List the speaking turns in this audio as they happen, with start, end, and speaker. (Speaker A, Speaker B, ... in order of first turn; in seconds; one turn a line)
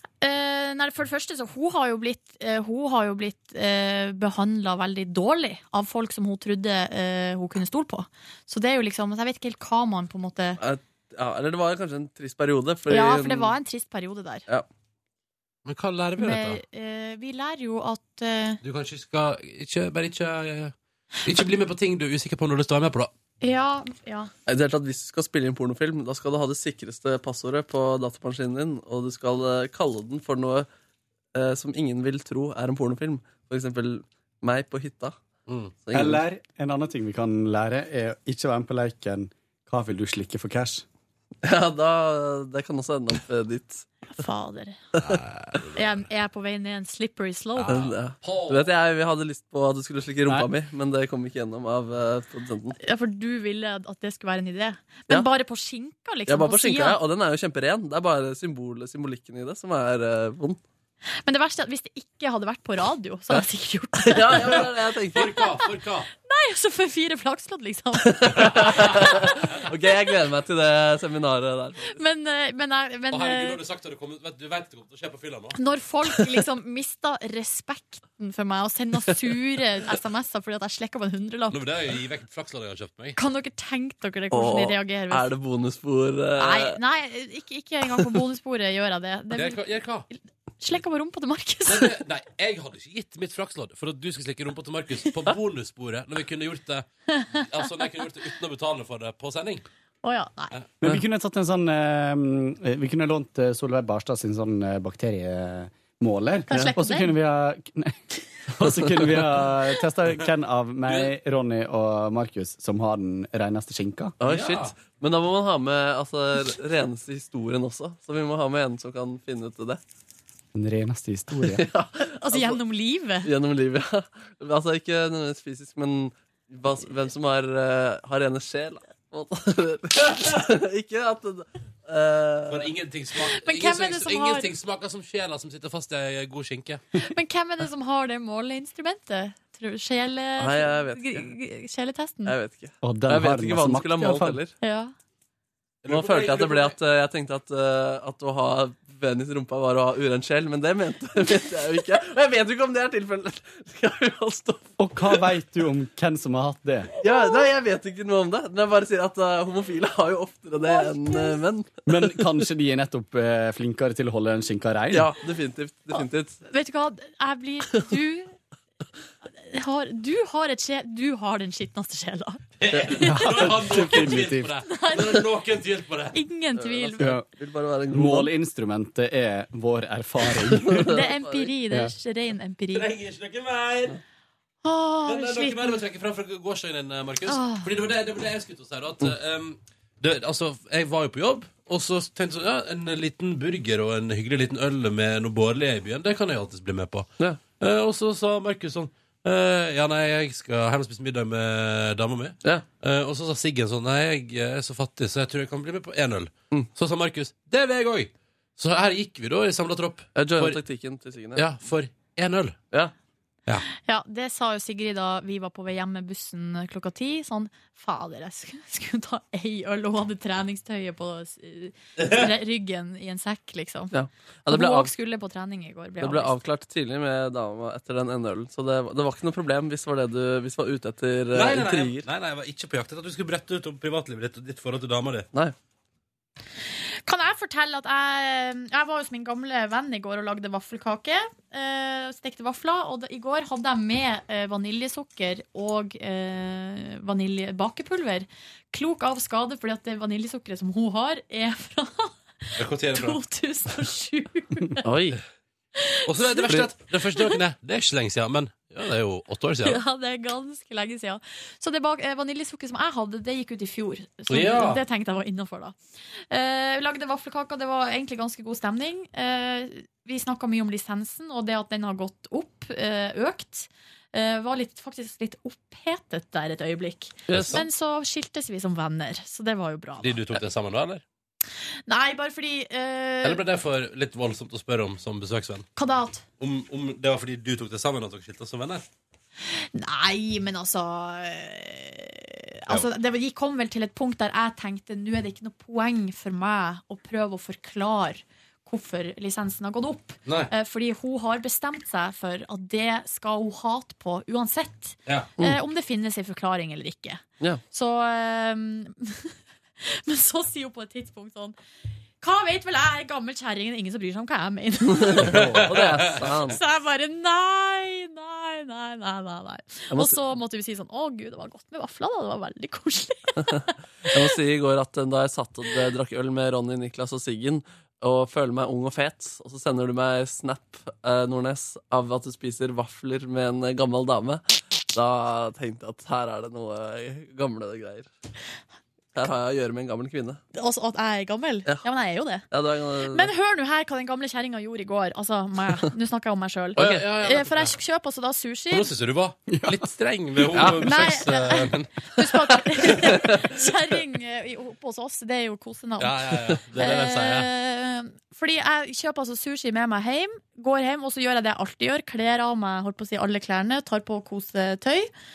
Speaker A: 0.2-10.6
Speaker B: 10.6-13.5
Speaker A: 12.9-14.4
Speaker C: 15.7-16.6
Speaker A: 16.2-18.6
Speaker C: 18.6-23.1
Speaker A: 23.4-24.3
Speaker B: 24.4-30.7
Speaker B: 31.3-35.1
Speaker C: 35.5-35.7
Speaker B: 35.8-36.2
Speaker D: 35.9-40.8
Speaker B: 41.4-43.9
Speaker A: 44.1-44.8
Speaker C: 45.0-45.8
Speaker A: 45.7-47.8
Speaker C: 47.6-48.7
Speaker B: 47.7-52.8
Speaker A: 52.8-57.0
Speaker B: 56.3-60.6
Speaker A: 61.2-64.6
Speaker B: 64.0-65.4
Speaker C: 65.1-66.1
Speaker A: 66.2-69.3
Speaker B: 68.1-72.0
Speaker C: 68.4-69.0
Speaker A: 71.9-73.6
Speaker C: 73.1-75.6
Speaker A: 75.6-81.6
Speaker C: 81.5-83.2
Speaker A: 83.2-85.3
Speaker B: 84.3-86.8
Speaker A: 86.4-92.0
Speaker C: 89.3-90.1
Speaker C: 91.7-99.6
Speaker A: 100.0-100.5
Speaker D: 100.8-114.2
Speaker A: 106.5-107.2
Speaker B: 108.8-109.2
Speaker B: 114.2-119.8
Speaker C: 114.2-114.7
Speaker D: 120.5-121.7
Speaker B: 121.4-122.6
Speaker A: 122.2-123.3
Speaker B: 123.2-132.7
Speaker C: 132.5-136.8
Speaker A: 133.3-134.5
Speaker A: 137.0-142.3
Speaker B: 140.4-141.3
Speaker B: 142.2-144.5
Speaker D: 142.8-144.4
Speaker A: 144.6-144.9
Speaker C: 145.8-146.7
Speaker B: 145.9-155.0
Speaker D: 154.8-156.9
Speaker B: 157.0-161.8
Speaker A: 160.7-161.4
Speaker D: 161.8-165.1
Speaker B: 164.9-166.4
Speaker A: 165.9-168.3
Speaker A: 169.4-172.4
Speaker C: 172.6-176.2
Speaker B: 172.7-173.0
Speaker A: 173.0-173.3
Speaker D: 173.0-174.6
Speaker A: 174.6-175.2
Speaker A: 176.1-177.2
Speaker B: 176.6-178.3
Speaker D: 177.0-177.3
Speaker D: 177.9-181.0
Speaker B: 180.7-181.5
Speaker A: 180.7-182.9
Speaker C: 182.7-183.9
Speaker A: 184.6-185.8
Speaker C: 185.1-210.6
Speaker A: 187.3-187.7
Speaker B: 210.2-211.4
Speaker C: 211.3-212.6
Speaker A: 213.8-223.9
Speaker C: 222.0-222.2
Speaker B: 223.9-224.9
Speaker A: 224.5-226.3
Speaker B: 226.0-232.1
Speaker C: 231.3-235.3
Speaker A: 237.1-254.8
Speaker C: 252.6-253.2
Speaker B: 254.8-255.2
Speaker A: 255.8-256.4
Speaker C: 256.1-259.8
Speaker A: 259.6-265.7
Speaker C: 264.3-264.8
Speaker A: 266.3-280.2
Speaker B: 277.3-277.6
Speaker C: 277.3-277.6
Speaker C: 280.0-281.0
Speaker A: 281.9-283.4
Speaker C: 283.2-285.7
Speaker A: 285.8-286.2
Speaker C: 286.4-288.8
Speaker A: 289.5-311.6
Speaker C: 300.2-300.5
Speaker A: 312.2-315.4
Speaker B: 314.9-316.6
Speaker C: 315.2-316.3
Speaker A: 316.4-323.7
Speaker B: 319.9-320.2
Speaker B: 324.1-338.1
Speaker B: 339.1-340.4
Speaker A: 340.5-342.4
Speaker B: 342.5-343.3
Speaker A: 343.1-348.9
Speaker B: 346.8-347.1
Speaker C: 346.8-347.7
Speaker C: 348.7-353.2
Speaker D: 349.5-349.9
Speaker B: 350.5-350.9
Speaker A: 350.8-365.1
Speaker C: 356.0-357.5